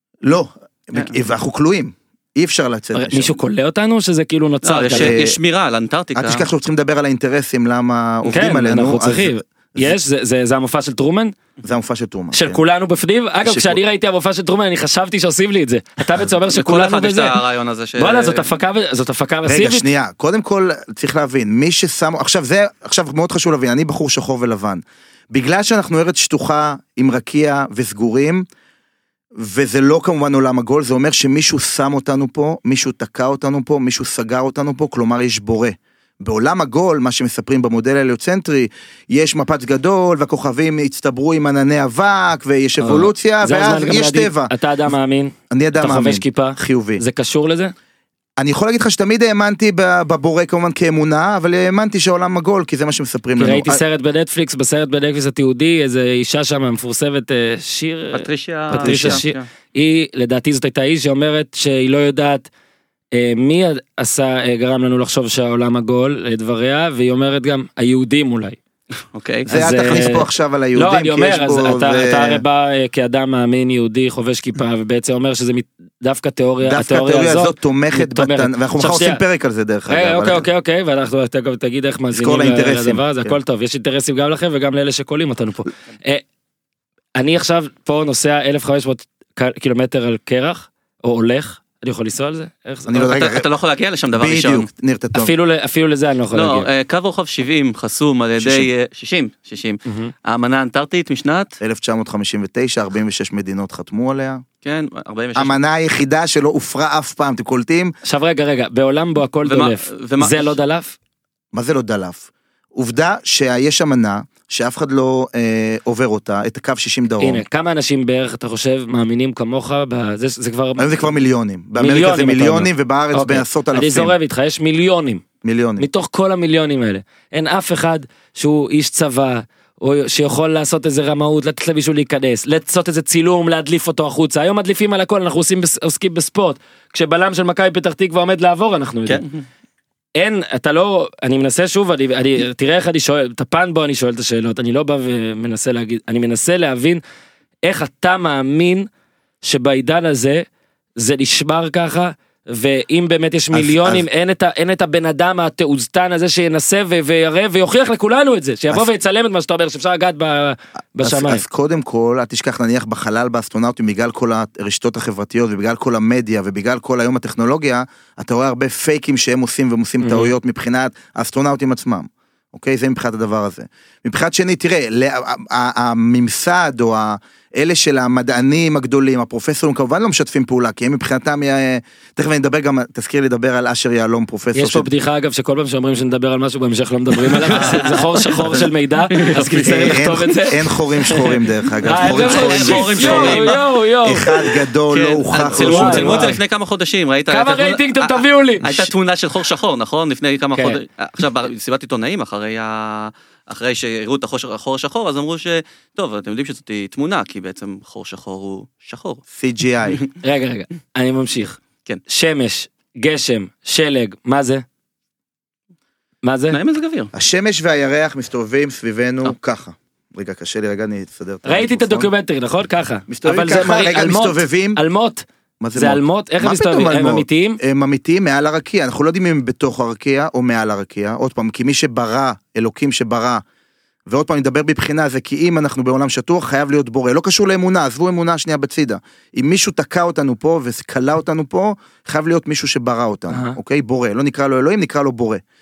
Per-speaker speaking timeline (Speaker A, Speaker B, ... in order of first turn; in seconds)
Speaker A: 0.2-3.4, 4.9-5.4, 6.1-10.0, 11.6-12.6, 13.4-13.8, 19.4-28.4, 29.4-44.5, 45.5-47.0, 48.4-53.8, 58.8-59.2, 69.5-72.4, 76.6-80.5, 82.1-83.4, 92.9-93.4, 94.1-95.3, 98.4-98.7, 101.6-104.4, 105.3-107.9, 111.5-117.4, 120.8-124.1, 125.4-125.8, 153.5-154.0, 161.0-184.9, 189.5-196.4, 209.3-210.0, 217.1-222.1, 223.1-224.8, 225.6-233.4, 234.1-245.4
Speaker B: 2.9-5.2, 8.3-11.3, 12.3-17.4, 18.0-19.8, 42.8-47.7, 53.4-62.5, 63.1-68.6, 69.5-79.2, 79.9-86.2, 87.2-93.0, 95.1-96.7, 108.0-111.0, 117.2-120.9, 121.8-125.2, 125.8-139.2, 140.2-147.0, 147.6-148.9, 149.4-150.4, 151.0-161.4, 170.0-170.3, 184.5-191.2, 191.8-194.5, 195.5-196.4, 197.3-198.9, 210.2-211.6, 212.1-214.6, 216.2-216.6, 221.4-225.2, 225.8-227.6, 243.3-243.6
Speaker C: 4.6-6.5, 16.5-18.4, 58.1-59.4, 69.1-69.5, 93.0-94.7, 96.3-101.6, 104.6-105.6, 109.4-110.5, 187.3-190.0, 191.9-193.6, 194.9-209.2, 216.5-217.1